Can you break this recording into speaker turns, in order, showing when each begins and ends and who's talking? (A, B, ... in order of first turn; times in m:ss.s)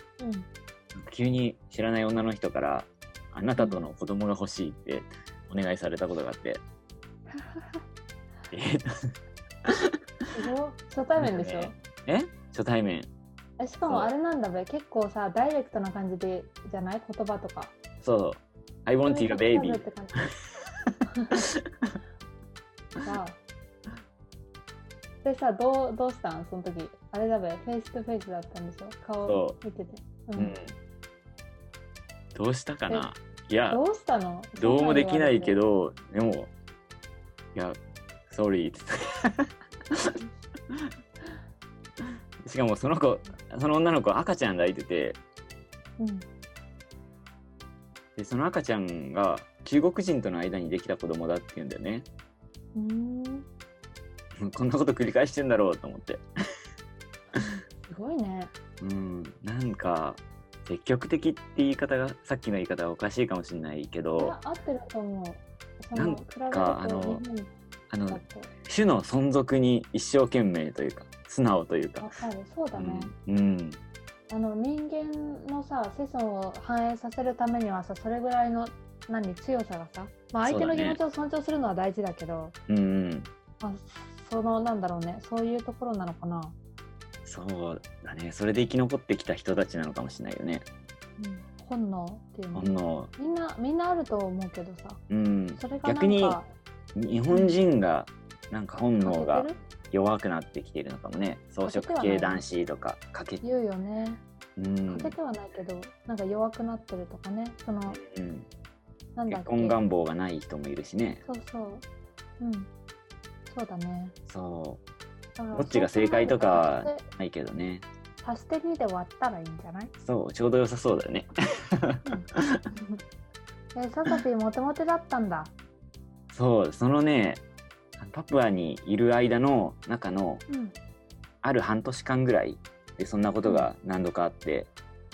0:00.2-0:00.5 A
0:01.0-0:06.6 B
0:03.6-0:03.8 A
0:07.3-0:07.8 A
0:08.5-0:08.9 B
0:10.3-0:11.8 A
0:11.2-0:13.1 B
0:13.6-0:17.7 A
0:13.8-0:14.1 B
0:18.0-0:19.9 B
0:19.0-0:20.2 A
0:21.2-0:21.4 A
0:23.1-0:23.4 A
0:25.2-0:30.5 A
0:29.2-0:29.6 B
0:30.4-0:30.8 B
0:32.4-0:33.8 B
0:33.7-0:35.6 A
0:34.6-0:36.5 B
0:38.3-0:39.5 B
0:42.5-0:45.2 B
0:46.0-0:46.3 A
0:48.2-0:52.1 B
0:52.8-0:53.5 A
0:54.4-0:56.2 B
0:57.4-0:58.5 A
0:58.8-1:04.4 B
1:04.2-1:07.5 A
1:06.0-1:07.2 B
1:07.9-1:12.1 B
1:08.1-1:08.5 A
1:12.0-1:13.1 A
1:12.8-1:13.8 B
1:14.3-1:22.6 A
1:20.4-1:21.0 B
1:22.7-1:23.3 B
1:23.6-1:26.6 A
1:27.2-1:30.7 B
1:31.2-1:35.0 A
1:32.5-1:33.1 B
1:35.1-1:36.4 B
1:35.6-1:36.5 A
1:37.0-1:43.4 B
1:37.3-1:37.6 A
1:39.0-1:39.6 A
1:41.6-1:42.4 A
1:43.4-1:44.2 A
1:44.6-1:45.2 B
1:44.9-1:48.0 A
1:47.9-1:48.5 B
1:49.2-1:49.8 A
1:49.3-1:51.2 B
1:51.2-1:51.8 A
1:52.4-1:52.7 A
1:53.5-1:54.2 A
1:54.3-1:54.8 B
1:55.4-1:57.0 A
1:55.5-1:57.8 B
1:58.2-1:59.9 A
2:00.0-2:01.3 B
2:03.7-2:05.5 A
2:06.3-2:07.4 B
2:08.0-2:10.4 B
2:10.5-2:10.8 A
2:11.4-2:14.7 B